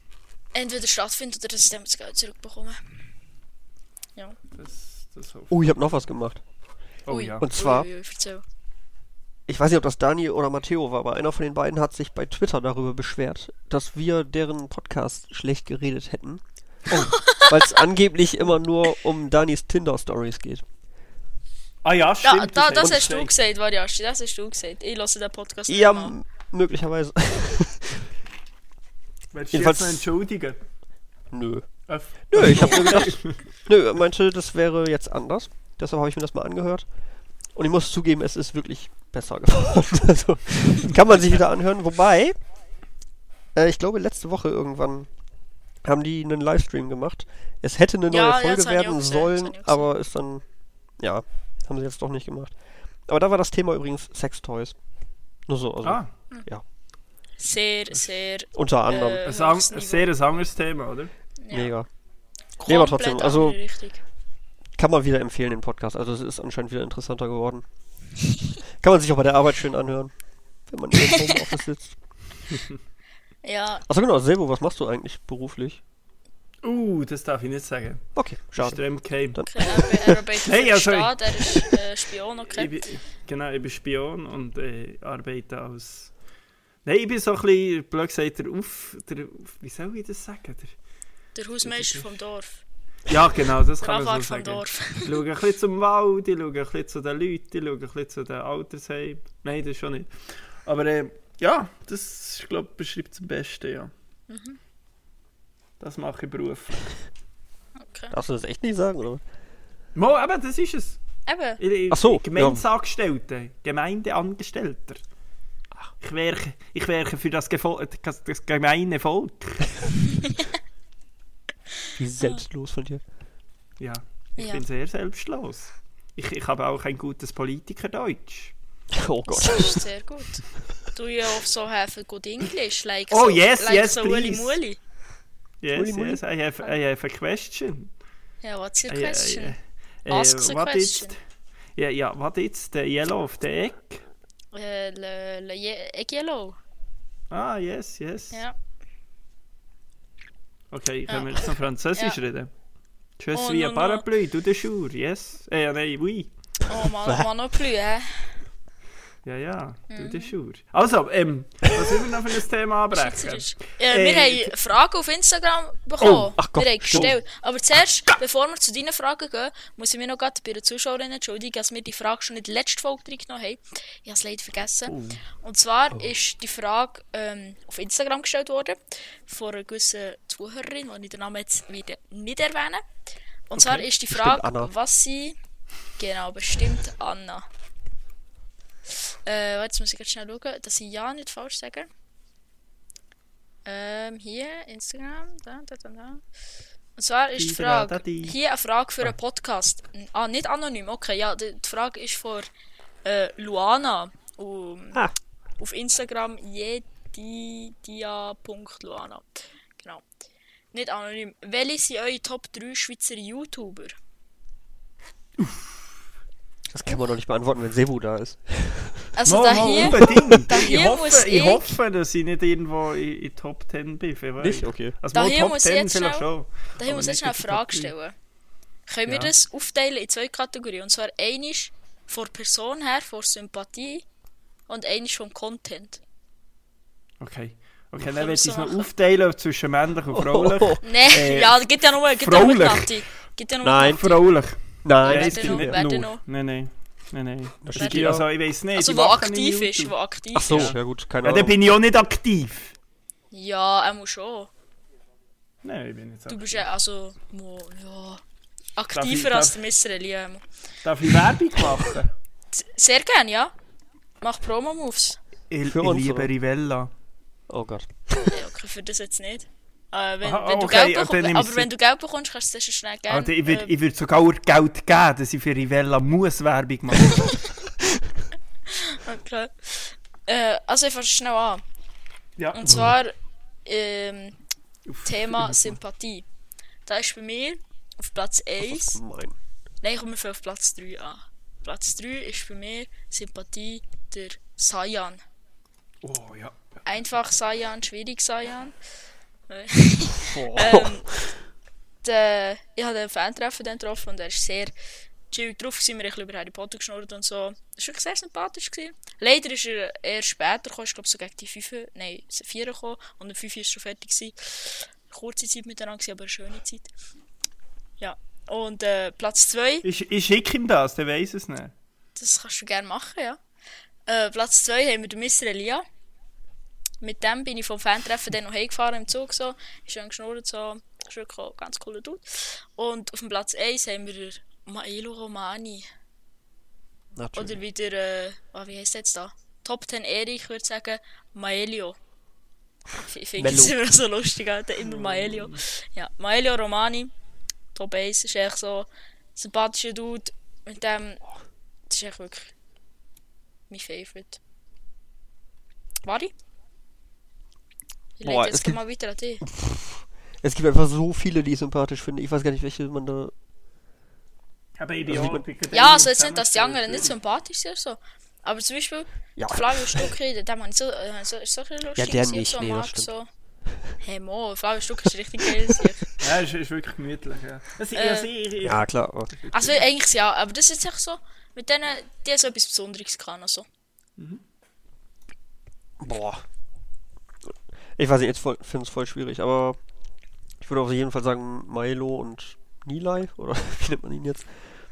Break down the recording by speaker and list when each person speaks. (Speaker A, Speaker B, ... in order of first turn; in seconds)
Speaker A: 0.5-2.8, 7.1-8.4, 17.1-17.8, 22.2-26.1, 48.1-49.9, 57.4-60.1, 61.4-61.7, 62.6-64.0, 73.4-73.8, 79.5-82.9, 91.3-92.6, 93.8-95.2, 104.3-104.6, 107.8-108.1, 111.2-111.6, 124.4-124.6, 129.3-134.8, 138.4-139.5, 140.1-141.1, 144.5-146.6, 151.1-152.2, 153.3-154.0, 156.7-158.3, 159.9-160.3, 162.9-182.8, 183.5-185.4, 186.0-187.4, 188.9-191.9, 193.6-196.2, 197.0-202.5, 203.0-205.0, 205.6-210.0, 210.7-213.9, 219.2-221.8, 225.1-226.3, 226.8-228.1, 228.9-234.0, 234.7-236.0, 238.0-238.9, 240.8-244.2, 245.0-246.2, 247.7-248.2, 248.7-250.7, 253.3-254.5, 256.3-258.2, 258.8-260.4, 262.5-263.5, 264.2-265.2, 268.3-273.7, 278.7-281.6, 282.5-284.4, 285.0-286.2, 286.9-289.0, 289.8-295.2, 296.9-298.7, 299.5-301.2, 302.0-304.7, 305.3-316.9, 318.0-319.8, 322.2-323.4, 324.1-325.8, 327.0-335.9, 337.4-342.0, 342.9-347.1, 347.7-351.2, 351.9-352.5, 353.7-354.4, 356.0-356.3, 358.2-359.4, 365.7-373.3, 374.0-376.1, 377.9-378.3, 379.5-383.6
Speaker B: 4.5-5.5, 7.0-7.5, 16.9-17.2, 21.8-23.3, 29.3-30.6, 31.9-33.4, 55.8-56.1, 59.2-61.1, 72.5-72.8, 76.6-78.0, 78.5-79.4, 80.3-81.7, 82.5-86.1, 86.8-90.7, 91.6-92.1, 93.1-103.9, 105.8-106.9, 109.9-111.0, 111.6-115.0, 116.0-119.9, 123.8-128.5, 133.1-134.6, 135.6-137.9, 138.9-141.2, 141.8-144.0, 147.3-148.4, 150.7-152.5, 153.2-156.3, 159.2-164.5, 166.9-167.2, 174.9-175.2, 183.6-183.9, 197.4-198.3, 215.4-215.7, 219.2-227.9, 229.1-229.3, 237.2-241.6, 242.2-242.9, 243.8-249.9, 250.5-252.7, 255.6-256.6, 258.9-259.6, 260.8-262.1, 265.5-266.9, 270.2-271.7, 273.1-277.4, 282.4-282.7, 284.9-285.8, 296.0-296.7, 319.8-321.7, 344.8-345.6, 364.8-367.1, 376.2-379.8
Speaker C: 5.5-6.4, 7.4-7.9, 9.5-16.4, 17.2-20.6, 25.7-28.1, 29.5-30.0, 31.3-31.7, 32.3-36.9, 37.5-42.4, 43.5-45.1, 45.8-50.4, 51.0-52.5, 53.1-54.7, 55.5-56.6, 58.5-59.2, 61.5-61.9, 62.6-63.6, 64.8-67.6, 68.8-70.1, 70.7-72.0, 73.8-75.8, 78.1-80.2, 108.1-109.2, 111.9-112.6, 122.0-123.0, 128.9-129.8, 135.7-136.2, 166.0-167.1, 184.1-184.7, 216.7-219.1, 224.4-225.0, 240.1-240.8, 243.6-244.0, 244.8-245.8, 247.6-248.3, 250.3-251.6, 265.6-266.3, 267.5-268.4, 282.6-282.9, 288.6-289.4, 300.2-301.3, 337.1-337.6, 343.4-343.8, 358.2-358.8, 359.4-363.3, 365.1-365.4, 369.4-370.1, 371.9-373.1, 375.4-375.9, 378.6-379.4, 386.0-386.4, 388.0-389.8, 390.6-394.7